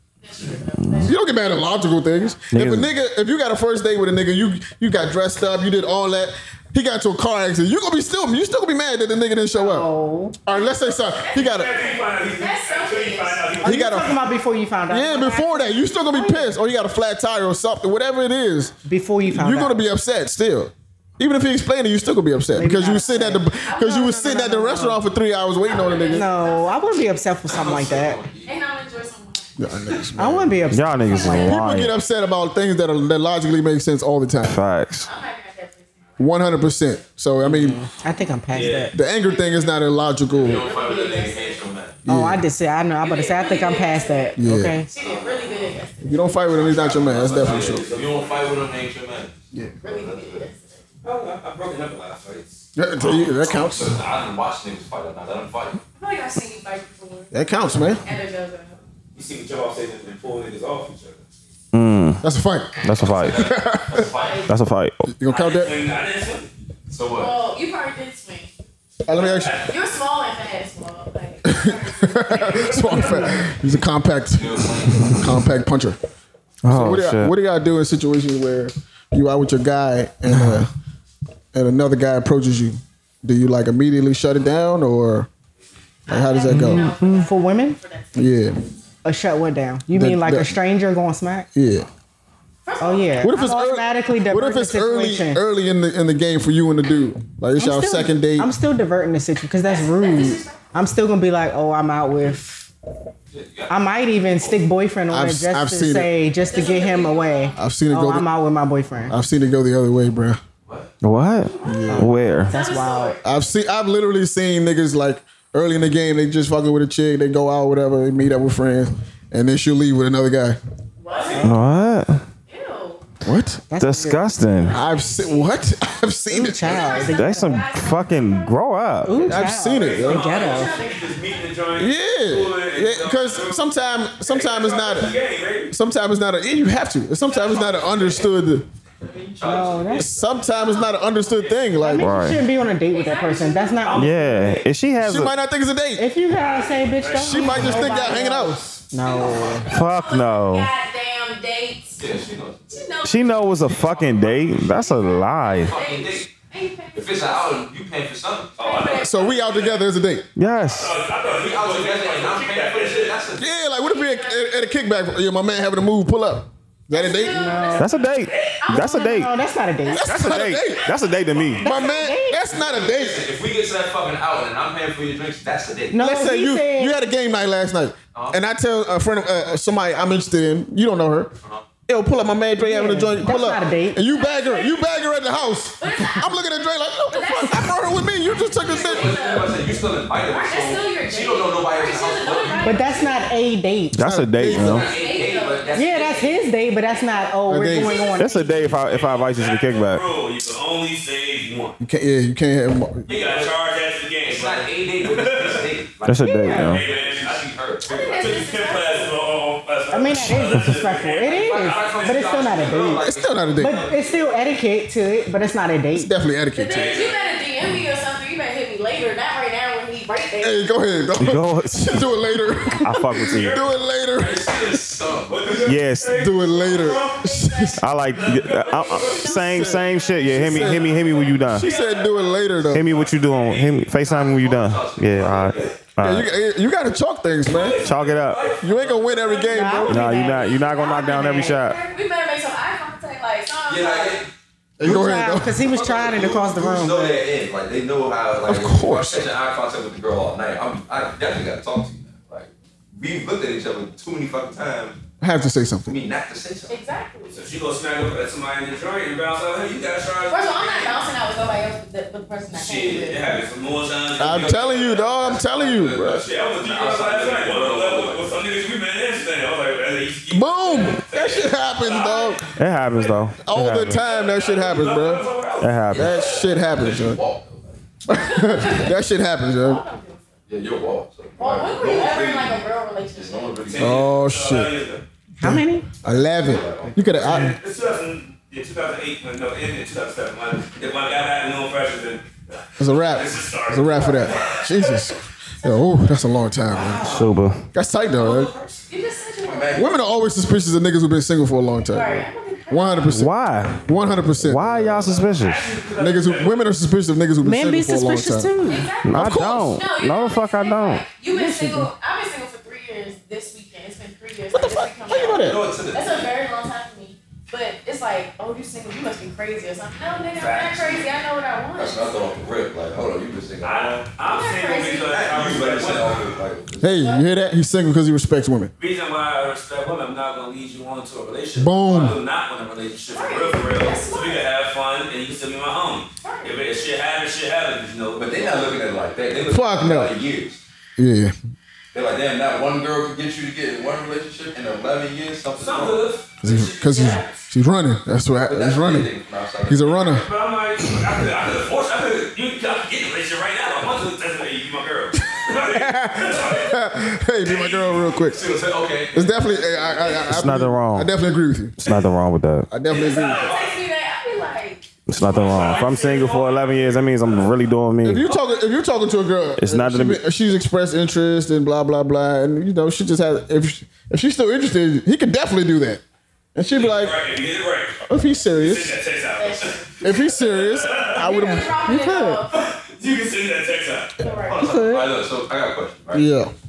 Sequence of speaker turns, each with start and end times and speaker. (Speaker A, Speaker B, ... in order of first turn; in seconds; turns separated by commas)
Speaker A: 0.2-1.2, Speaker B: 0.8-1.1, Speaker C: 1.0-9.9, Speaker A: 2.0-2.4, Speaker B: 2.5-2.9, Speaker D: 9.5-10.4, Speaker C: 10.4-11.7, Speaker A: 10.5-13.6, Speaker E: 11.3-13.9, Speaker D: 13.6-16.5, Speaker C: 13.6-14.2, Speaker C: 14.9-26.3, Speaker D: 18.9-19.8, Speaker D: 22.6-25.0, Speaker A: 23.6-24.4, Speaker A: 25.6-27.3, Speaker D: 26.1-28.2, Speaker F: 27.4-28.6, Speaker A: 28.4-29.7, Speaker C: 29.6-34.6, Speaker D: 30.2-31.6, Speaker B: 30.7-31.9, Speaker B: 34.4-35.1, Speaker A: 35.0-36.3, Speaker C: 36.2-37.8, Speaker D: 37.4-38.9, Speaker E: 38.5-38.9, Speaker C: 38.9-40.6, Speaker A: 39.1-39.8, Speaker F: 40.3-42.0, Speaker A: 40.5-41.7, Speaker C: 42.0-42.4, Speaker D: 42.0-44.9, Speaker A: 43.0-46.5, Speaker C: 44.4-44.8, Speaker F: 45.0-45.7, Speaker C: 46.0-47.8, Speaker F: 46.5-50.5, Speaker E: 47.1-48.5, Speaker C: 49.5-49.8, Speaker A: 49.8-50.8, Speaker E: 51.0-52.6, Speaker C: 52.8-54.0, Speaker F: 53.0-55.8, Speaker A: 56.0-58.8, Speaker C: 57.3-58.0, Speaker E: 59.1-61.2, Speaker B: 61.7-62.2, Speaker C: 62.2-64.1, Speaker B: 62.8-63.5, Speaker F: 63.1-64.5, Speaker A: 64.0-64.5, Speaker B: 64.5-65.0, Speaker C: 65.0-65.8, Speaker E: 65.3-66.5, Speaker F: 66.9-67.4, Speaker A: 67.2-68.5, Speaker C: 69.0-69.5, Speaker E: 69.1-69.7, Speaker A: 69.5-73.5, Speaker C: 71.4-76.0, Speaker F: 74.3-75.2, Speaker B: 76.6-77.3, Speaker C: 76.7-80.7, Speaker B: 80.3-80.6, Speaker C: 81.5-85.3, Speaker C: 86.1-86.9, Speaker A: 86.1-88.3, Speaker D: 86.5-87.8, Speaker C: 88.1-88.6, Speaker D: 89.0-91.5, Speaker C: 89.9-90.5, Speaker C: 91.5-91.9, Speaker A: 92.6-93.4, Speaker D: 92.8-95.4, Speaker C: 93.2-98.5, Speaker D: 97.5-102.7, Speaker A: 99.6-100.7, Speaker F: 103.3-103.8, Speaker D: 103.7-109.1, Speaker C: 105.1-106.1, Speaker A: 106.3-107.6, Speaker C: 107.5-108.3, Speaker C: 109.1-110.4, Speaker F: 110.7-110.9, Speaker B: 111.0-112.5, Speaker C: 111.6-112.1, Speaker A: 111.7-113.3, Speaker D: 111.8-113.1, Speaker C: 113.2-120.6, Speaker A: 121.0-121.6, Speaker E: 121.1-121.5, Speaker D: 121.3-121.7, Speaker B: 121.4-122.2, Speaker A: 122.5-123.0, Speaker C: 123.2-123.6, Speaker D: 123.7-124.3, Speaker B: 123.8-124.8, Speaker A: 124.5-125.6, Speaker C: 124.7-127.1, Speaker D: 126.3-127.6, Speaker A: 126.6-128.7, Speaker B: 127.0-129.4, Speaker D: 129.0-130.8, Speaker C: 129.2-130.3, Speaker E: 129.7-135.7, Speaker A: 130.0-131.6, Speaker C: 131.7-135.1, Speaker C: 135.7-138.7, Speaker F: 137.3-138.2, Speaker F: 139.0-140.5, Speaker D: 139.4-140.1, Speaker C: 139.9-142.2, Speaker A: 140.5-141.6, Speaker D: 141.8-144.1, Speaker B: 142.0-142.4, Speaker A: 142.9-144.1, Speaker E: 143.8-144.7, Speaker B: 143.9-145.3, Speaker C: 145.0-146.1, Speaker D: 146.0-149.7, Speaker E: 146.4-147.7, Speaker C: 147.1-148.8, Speaker A: 147.4-148.3, Speaker A: 148.9-152.0, Speaker B: 149.7-150.7, Speaker F: 152.0-152.8, Speaker A: 152.7-157.7, Speaker B: 153.0-155.7, Speaker F: 155.6-156.3, Speaker F: 156.9-158.9, Speaker E: 158.6-159.8, Speaker A: 158.6-159.6, Speaker C: 159.0-160.3, Speaker B: 160.4-160.9, Speaker E: 160.5-163.3, Speaker F: 161.2-163.5, Speaker C: 163.4-167.6, Speaker A: 163.7-164.4, Speaker A: 166.9-169.3, Speaker D: 167.3-167.9, Speaker B: 167.8-169.3, Speaker E: 168.3-168.5, Speaker D: 168.7-170.1, Speaker C: 169.9-170.9, Speaker B: 170.0-171.6, Speaker A: 170.7-171.9, Speaker E: 171.1-171.5, Speaker C: 171.6-173.3, Speaker D: 171.6-172.5, Speaker F: 172.5-176.0, Speaker D: 175.9-177.0, Speaker C: 175.9-181.3, Speaker F: 178.1-178.4, Speaker C: 181.9-189.1, Speaker D: 182.6-184.0, Speaker A: 183.9-186.5, Speaker A: 187.1-189.6, Speaker F: 188.3-193.1, Speaker A: 190.3-193.3, Speaker D: 192.6-194.0, Speaker B: 193.9-194.9, Speaker C: 194.0-194.9, Speaker F: 194.5-196.4, Speaker A: 194.6-198.6, Speaker D: 195.7-198.8, Speaker C: 197.5-198.1, Speaker B: 198.2-200.0, Speaker E: 198.8-201.8, Speaker C: 201.8-203.1, Speaker F: 203.1-203.6, Speaker E: 203.1-205.8, Speaker F: 204.3-208.4, Speaker B: 206.1-206.8, Speaker E: 206.4-212.5, Speaker A: 207.8-209.2, Speaker D: 209.9-216.1, Speaker F: 211.3-214.3, Speaker C: 213.0-213.8, Speaker C: 215.9-217.0, Speaker A: 216.6-220.7, Speaker E: 216.7-217.4, Speaker C: 220.4-224.7, Speaker B: 221.2-222.1, Speaker B: 222.8-223.6, Speaker E: 223.3-223.7, Speaker F: 224.1-225.7, Speaker E: 225.3-227.3, Speaker B: 225.7-226.3, Speaker C: 226.1-227.8, Speaker A: 226.7-231.5, Speaker B: 227.8-231.7, Speaker E: 228.1-229.4, Speaker C: 229.3-232.9, Speaker E: 231.6-233.6, Speaker B: 232.7-236.3, Speaker F: 232.9-235.7, Speaker E: 235.5-235.7, Speaker C: 236.0-237.8, Speaker E: 237.4-239.6, Speaker B: 237.8-238.5, Speaker C: 238.6-240.1, Speaker A: 239.3-244.2, Speaker D: 239.5-241.6, Speaker B: 239.9-241.8, Speaker F: 243.7-244.3, Speaker C: 244.8-245.6, Speaker D: 244.8-247.3, Speaker F: 245.6-255.0, Speaker C: 248.4-249.3, Speaker C: 255.2-255.9, Speaker F: 255.9-256.8, Speaker A: 256.7-257.4, Speaker E: 257.3-261.0, Speaker A: 260.3-263.3, Speaker E: 262.5-273.1, Speaker C: 264.2-266.2, Speaker F: 264.2-268.3, Speaker C: 270.3-272.4, Speaker B: 272.6-274.0, Speaker C: 273.4-275.2, Speaker E: 274.0-276.5, Speaker B: 275.6-276.1, Speaker F: 275.9-277.8, Speaker C: 275.9-277.2, Speaker C: 278.1-279.8, Speaker A: 278.1-278.9, Speaker A: 279.6-280.3, Speaker F: 280.5-284.1, Speaker A: 281.4-283.8, Speaker E: 283.7-285.0, Speaker C: 283.8-284.7, Speaker D: 285.4-285.9, Speaker C: 285.4-287.6, Speaker F: 286.1-287.1, Speaker E: 287.2-295.1, Speaker C: 292.8-297.1, Speaker A: 295.6-295.9, Speaker E: 296.7-297.3, Speaker B: 297.0-297.6, Speaker C: 297.7-298.5, Speaker E: 298.1-298.8, Speaker A: 298.9-299.9, Speaker F: 299.4-300.0, Speaker C: 299.7-303.3, Speaker A: 301.9-303.2, Speaker B: 303.1-303.9, Speaker C: 303.8-305.1, Speaker B: 304.4-305.7, Speaker E: 305.0-306.7, Speaker C: 305.9-308.5, Speaker D: 307.4-308.9, Speaker A: 308.6-322.3, Speaker B: 309.1-311.1, Speaker C: 309.1-309.7, Speaker D: 311.3-311.9, Speaker C: 314.5-315.6, Speaker F: 315.1-316.3, Speaker E: 320.4-321.1, Speaker F: 321.7-324.2, Speaker E: 323.6-326.4, Speaker A: 324.2-325.1, Speaker F: 325.1-327.1, Speaker C: 326.8-328.7, Speaker A: 327.0-327.2, Speaker E: 328.8-338.7, Speaker C: 331.6-332.2, Speaker A: 333.1-334.5, Speaker A: 336.2-336.5, Speaker F: 338.1-340.6, Speaker C: 339.5-340.1, Speaker C: 341.0-341.3, Speaker F: 341.9-346.0, Speaker E: 345.5-347.4, Speaker C: 346.4-349.1, Speaker A: 346.9-347.2, Speaker F: 348.4-350.1, Speaker C: 349.6-350.3, Speaker E: 349.9-356.8, Speaker C: 355.4-358.4, Speaker F: 357.4-360.3, Speaker C: 359.1-361.8, Speaker B: 360.3-361.1, Speaker B: 361.8-362.7, Speaker C: 362.7-363.5, Speaker E: 362.9-363.8, Speaker A: 363.3-364.9, Speaker B: 365.1-368.3, Speaker E: 365.1-367.7, Speaker C: 368.0-376.0, Speaker B: 369.6-370.2, Speaker C: 376.6-377.2, Speaker E: 376.7-381.3, Speaker C: 378.1-379.0, Speaker A: 379.3-380.5, Speaker C: 380.0-381.8, Speaker A: 381.1-382.7, Speaker D: 381.3-382.4, Speaker E: 382.5-384.1, Speaker A: 384.2-384.7, Speaker F: 384.4-386.3, Speaker D: 384.6-385.1, Speaker C: 386.1-386.5